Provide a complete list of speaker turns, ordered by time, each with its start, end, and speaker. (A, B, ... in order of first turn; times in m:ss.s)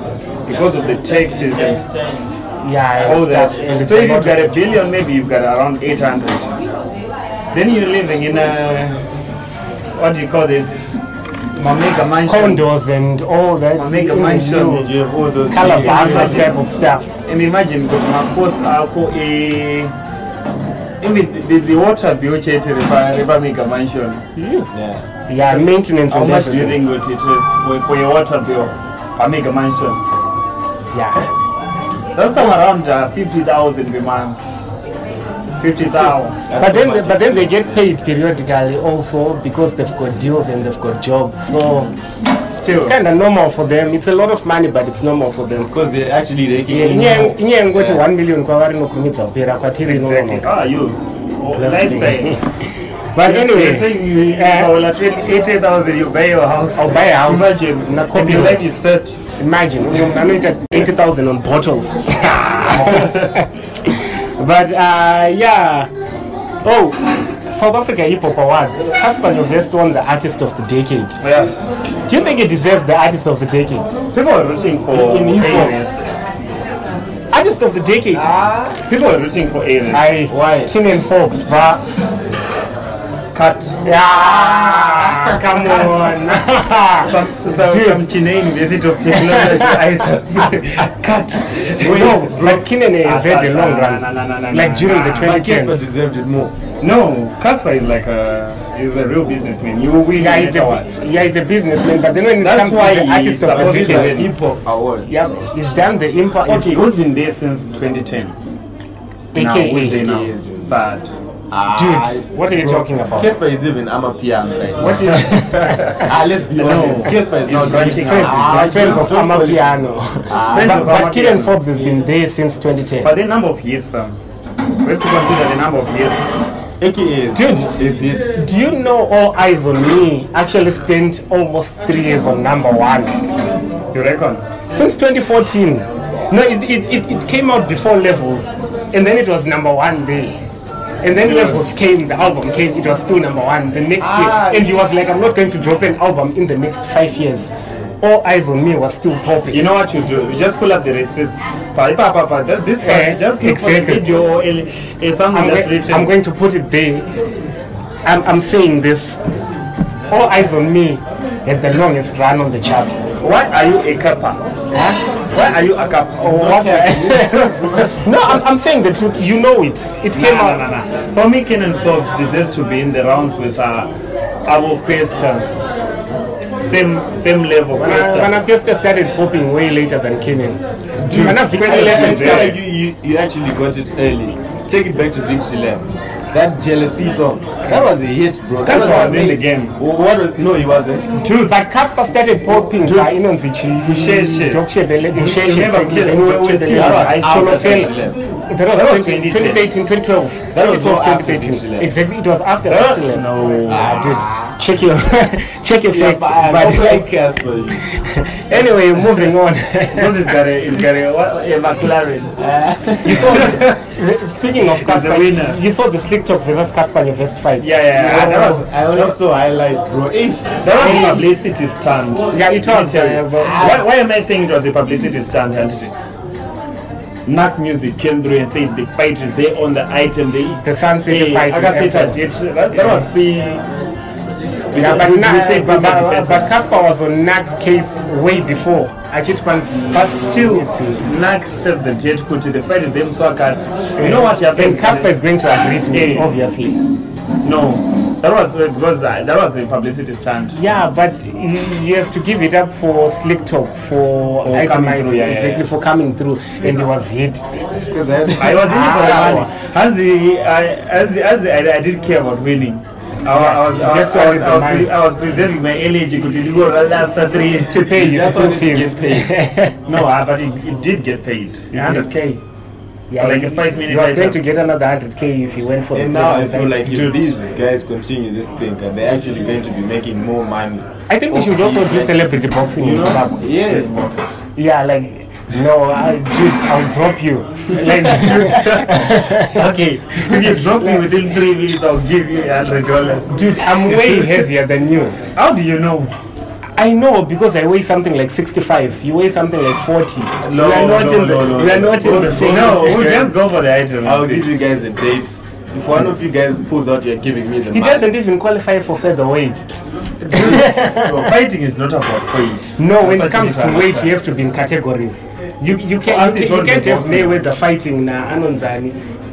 0:00.4-0:01.9 A
0:02.6-0:04.6 B
0:03.0-0:06.6 A
0:07.5-0:09.0 A
0:10.0-0:10.8 A
0:11.6-0:12.7 A
0:12.2-0:15.0 B
0:13.8-0:14.9 A
0:14.7-0:16.6 C
0:15.5-0:17.1 B
0:15.6-0:16.6 A
0:17.2-0:19.9 A
0:21.0-0:24.2 A
0:24.4-0:24.7 B
0:24.7-0:25.0 C
0:25.3-0:26.8 B
0:25.5-0:30.0 A
0:30.9-0:31.3 B
0:32.2-0:34.4 A
0:35.6-0:36.4 A
0:36.4-0:37.8 C
0:36.6-0:41.9 B
0:42.4-0:43.0 A
0:42.7-0:45.7 B
0:45.7-0:48.0 C
0:46.7-0:50.5 B
0:49.8-0:52.4 A
0:51.6-0:52.4 B
0:53.1-0:54.7 B
0:53.2-0:59.2 A
0:56.8-0:58.7 B
0:59.4-1:05.9 B
1:02.7-1:03.4 A
1:06.6-1:11.2 B
1:11.2-1:11.5 A
1:12.1-1:13.9 B
1:14.1-1:16.0 A
1:14.9-1:15.8 C
1:15.4-1:15.7 B
1:17.3-1:18.3 B
1:18.1-1:18.8 C
1:18.8-1:20.1 A
1:19.9-1:21.8 B
1:20.3-1:20.7 C
1:23.3-1:23.8 A
1:23.8-1:28.0 B
1:24.1-1:26.0 C
1:27.0-1:35.4 A
1:29.1-1:29.7 B
1:31.8-1:32.6 C
1:31.8-1:35.8 B
1:35.2-1:36.5 C
1:36.8-1:41.0 A
1:40.2-1:44.2 B
1:42.4-1:44.3 A
1:43.4-1:45.4 C
1:45.0-1:46.9 B
1:46.5-1:48.4 A
1:49.3-1:50.0 B
1:49.3-1:51.1 A
1:49.9-1:50.7 C
1:51.5-1:55.3 C
1:51.7-1:53.3 B
1:54.8-1:56.0 B
1:55.1-1:59.2 A
1:56.0-1:59.7 C
1:57.7-2:03.1 B
2:00.3-2:01.0 C
2:00.5-2:01.6 A
2:03.0-2:04.2 A
2:04.8-2:06.3 A
2:06.8-2:08.3 C
2:07.3-2:13.1 B
2:13.9-2:14.4 A
2:14.7-2:20.4 B
2:21.0-2:29.6 B
2:21.2-2:21.6 A
2:24.0-2:24.7 C
2:29.5-2:36.1 A
2:32.8-2:34.0 B
2:35.3-2:37.0 B
2:38.0-2:39.2 B
2:40.1-2:43.0 B
2:43.2-2:44.4 A
2:45.3-2:46.5 A
2:46.2-2:50.6 B
2:46.2-2:47.9 C
2:47.2-2:47.8 A
2:50.1-2:53.9 A
2:54.5-2:55.5 A
2:56.5-2:58.3 A
2:57.7-3:02.6 B
3:01.0-3:02.6 A
3:01.1-3:11.1 C
3:08.6-3:09.8 A
3:08.6-3:09.3 B
3:11.2-3:11.5 A
3:11.4-3:17.9 B
3:12.8-3:13.2 A
3:13.8-3:17.9 A
3:16.7-3:18.2 C
3:18.5-3:23.2 B
3:18.7-3:19.7 A
3:20.5-3:21.9 C
3:22.7-3:23.9 A
3:23.7-3:24.6 C
3:23.8-3:27.0 B
3:25.9-3:27.8 C
3:28.0-3:30.3 B
3:29.9-3:32.3 A
3:32.4-3:33.6 C
3:33.0-3:38.6 B
3:33.0-3:33.8 A
3:34.6-3:35.6 A
3:37.6-3:39.2 A
3:38.0-3:41.2 C
3:40.6-3:45.9 A
3:40.7-3:41.2 B
3:42.3-3:43.7 B
3:43.4-3:43.9 C
3:47.2-3:53.6 A
3:50.6-3:52.2 B
3:52.7-3:53.0 B
3:54.7-3:56.5 A
3:54.7-4:01.0 B
3:59.9-4:05.1 A
4:04.0-4:06.8 B
4:05.9-4:06.3 A
4:07.4-4:10.6 A
4:10.5-4:17.4 B
4:14.4-4:15.7 A
4:17.9-4:18.8 C
4:18.4-4:27.9 A
4:18.6-4:19.5 B
4:23.3-4:24.9 B
4:27.7-4:29.8 B
4:27.9-4:29.3 C
4:29.9-4:32.3 A
4:31.7-4:32.4 B
4:33.1-4:37.1 B
4:33.2-4:34.4 A
4:35.9-4:44.2 C
4:36.9-4:37.3 A
4:41.1-4:43.4 B
4:42.8-4:44.2 A
4:44.6-4:49.6 B
4:47.8-4:54.4 A
4:50.2-4:51.0 B
4:53.3-4:55.2 B
4:55.4-4:56.1 A
4:56.8-5:03.0 B
5:00.4-5:04.5 A
5:01.7-5:03.3 C
5:04.0-5:08.1 C
5:07.7-5:09.8 B
5:10.2-5:11.3 C
5:10.3-5:14.1 A
5:10.3-5:11.3 B
5:12.8-5:18.9 B
5:16.0-5:17.4 A